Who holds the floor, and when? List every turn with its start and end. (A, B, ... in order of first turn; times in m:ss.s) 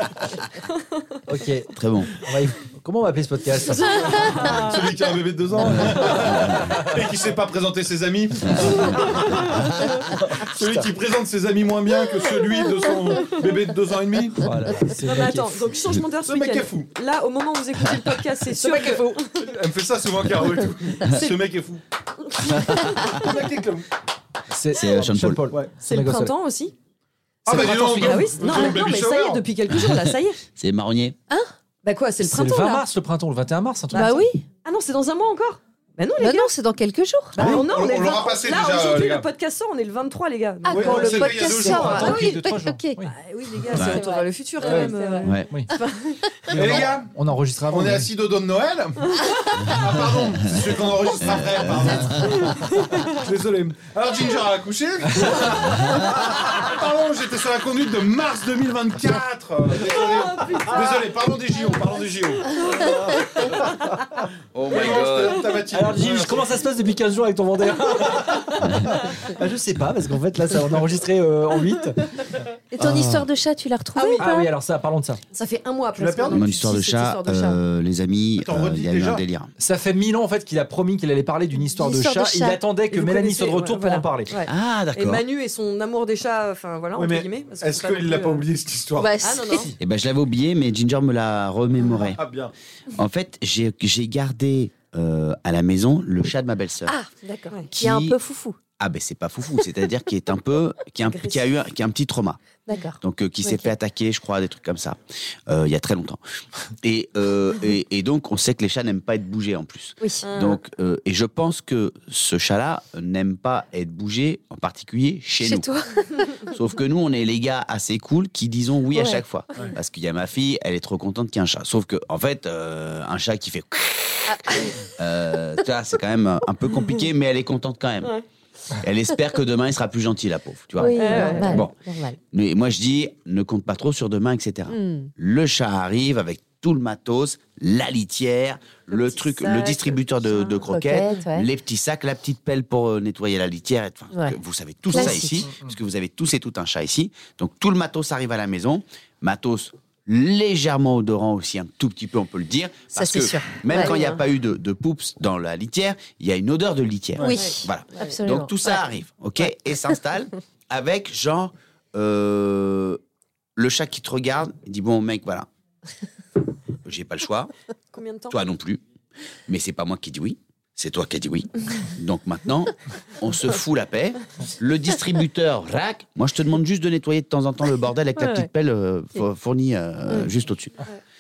0:01.3-0:04.4 A
0:01.7-0:02.1 B
0:03.7-0:05.0 C
0:04.4-0:09.5 D
0:05.6-0:07.0 A
0:05.7-0:06.8 B
0:08.4-0:09.9 B
0:08.8-0:09.7 C
0:10.1-0:10.9 A
0:10.4-0:14.5 D
0:14.4-0:15.8 A
0:14.9-0:19.5 C
0:16.2-0:16.9 D
0:18.6-0:21.8 D
0:21.0-0:21.3 C
0:22.2-0:23.3 C
0:22.5-0:23.2 B
0:22.6-0:23.9 D
0:24.5-0:26.3 A
0:24.7-0:25.5 B
0:25.8-0:26.7 C
0:27.4-0:28.8 A
0:27.4-0:29.4 D
0:27.8-0:30.4 C
0:29.8-0:31.2 B
0:31.8-0:32.8 C
0:32.2-0:34.3 A
0:33.9-0:36.5 C
0:33.9-0:34.4 E
0:36.2-0:37.5 E
0:37.4-0:42.4 C
0:37.4-0:37.7 A
0:37.4-0:39.3 D
0:40.6-0:45.4 E
0:40.7-0:42.2 D
0:40.9-0:43.1 A
0:43.0-0:46.8 C
0:43.7-0:44.0 B
0:44.6-0:44.9 A
0:45.2-0:45.5 B
0:46.5-0:48.1 A
0:46.5-0:47.1 D
0:47.7-1:03.8 D
0:51.2-0:52.4 B
0:52.2-0:53.0 C
0:55.7-0:56.0 B
0:59.7-1:01.8 C
1:02.4-1:03.5 C
1:04.5-1:05.5 B
1:04.6-1:06.5 D
1:05.7-1:12.1 A
1:08.6-1:08.9 B
1:12.7-1:14.5 E
1:12.8-1:13.3 B
1:13.9-1:14.3 C
1:14.2-1:15.2 A
1:15.3-1:17.6 C
1:15.9-1:16.5 D
1:16.3-1:19.5 B
1:18.4-1:19.2 D
1:19.6-1:24.4 A
1:21.8-1:22.6 E
1:22.9-1:28.4 C
1:24.4-1:25.2 B
1:26.9-1:29.2 D
1:29.0-1:29.7 E
1:29.2-1:29.7 C
1:29.8-1:32.2 B
1:32.0-1:32.5 D
1:32.9-1:37.0 B
1:36.9-1:38.6 E
1:37.7-1:38.2 B
1:38.8-1:42.4 B
1:41.1-1:41.4 C
1:42.7-1:43.7 E
1:43.0-1:46.2 B
1:46.8-1:55.7 B
1:50.2-1:50.6 C
1:55.4-1:56.3 E
1:56.5-2:08.2 B
1:58.9-1:59.2 E
2:04.3-2:04.8 E
2:08.7-2:11.7 B
2:10.8-2:12.2 E
2:10.8-2:11.6 C
2:12.3-2:43.0 B
2:14.7-2:15.1 E
2:19.4-2:19.8 E
2:20.3-2:20.6 C
2:20.7-2:21.5 E
2:24.9-2:25.5 E
2:32.9-2:34.2 E
2:33.8-2:34.1 C
2:37.2-2:38.8 E
2:37.3-2:38.2 C
2:43.6-2:45.5 B
2:46.8-2:47.5 B
2:47.9-2:48.4 C
2:48.3-2:48.8 B
2:49.5-3:00.8 B
2:58.2-2:58.5 E